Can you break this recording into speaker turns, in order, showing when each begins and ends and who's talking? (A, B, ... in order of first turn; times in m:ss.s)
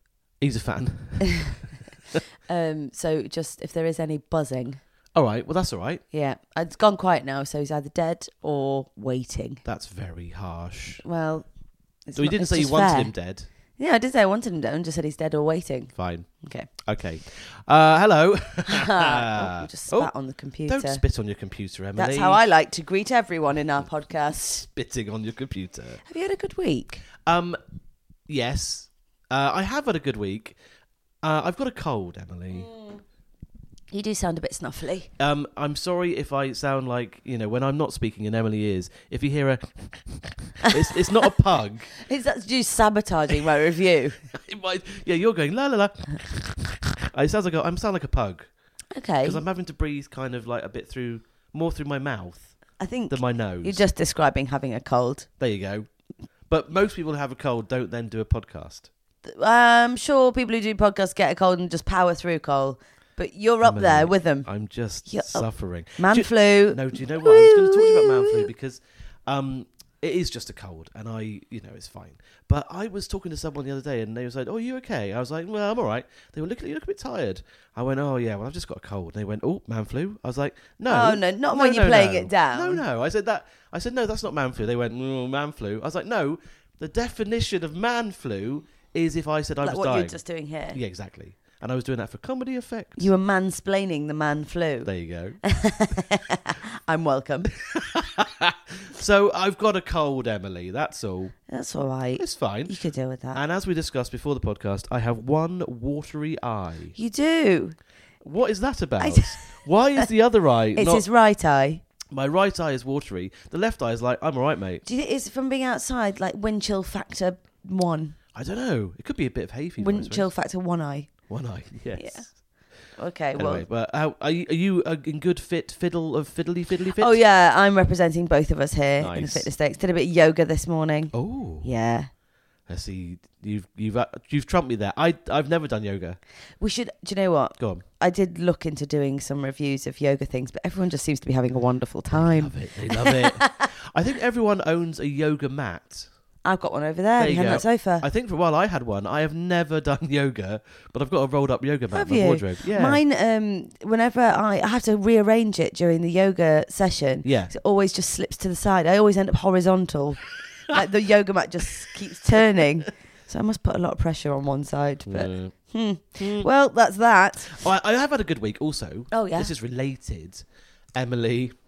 0:00.4-0:01.6 A
0:01.2-0:01.5 B
0:02.5-0:04.8 B
0:05.1-0:06.0 A
0:06.1-0:09.6 B
0:09.6-0:11.0 A
0:11.0-0:11.5 B
0:12.0-0:13.1 B
0:12.2-0:13.5 A
0:13.8-0:16.7 B
0:15.9-0:16.3 A
0:16.8-0:20.1 A
0:18.6-0:21.0 B
0:20.6-0:22.4 A
0:22.0-0:24.7 B
0:24.8-0:26.0 A
0:26.0-0:27.0 B
0:27.2-0:27.6 A
0:28.3-0:30.6 A
0:31.2-0:32.7 A
0:32.5-0:33.0 B
0:33.9-0:35.1 B
0:35.2-0:41.9 A
0:40.6-0:41.3 B
0:42.0-0:44.3 B
0:44.3-0:48.5 A
0:48.9-0:49.4 B
0:49.2-0:52.5 A
0:52.8-0:55.3 B
0:53.1-0:53.8 A
0:55.4-0:55.9 A
0:56.5-0:58.9 A
0:59.2-1:04.5 B
1:03.6-1:30.2 A
1:05.1-1:08.5 B
1:20.9-1:22.8 B
1:29.6-1:30.8 B
1:30.7-1:33.1 A
1:33.0-1:34.9 B
1:34.8-1:35.4 A
1:35.4-1:37.5 B
1:37.6-1:41.3 A
1:41.5-1:43.4 B
1:42.2-1:42.8 A
1:43.3-1:46.9 A
1:47.0-1:47.8 B
1:48.2-1:51.0 A
1:49.0-1:50.1 B
1:50.8-1:51.8 B
1:52.1-1:54.8 A
1:54.8-1:58.2 B
1:58.3-2:00.2 A
1:59.8-2:01.1 B
2:01.3-2:02.2 A
2:02.0-2:02.3 B
2:03.0-2:03.6 B
2:03.4-2:07.2 A
2:07.0-2:12.1 B
2:09.0-2:09.5 A
2:11.1-2:11.7 A
2:12.7-2:16.2 A
2:16.6-2:23.7 B
2:17.6-2:17.8 A
2:22.1-2:26.1 A
2:26.4-2:28.0 B
2:27.2-2:33.0 A
2:31.9-2:47.6 B
2:37.2-2:37.5 A
2:45.1-2:45.5 A
2:46.2-2:46.5 A
2:47.5-2:50.4 A
2:49.1-2:49.5 B
2:50.9-2:51.5 A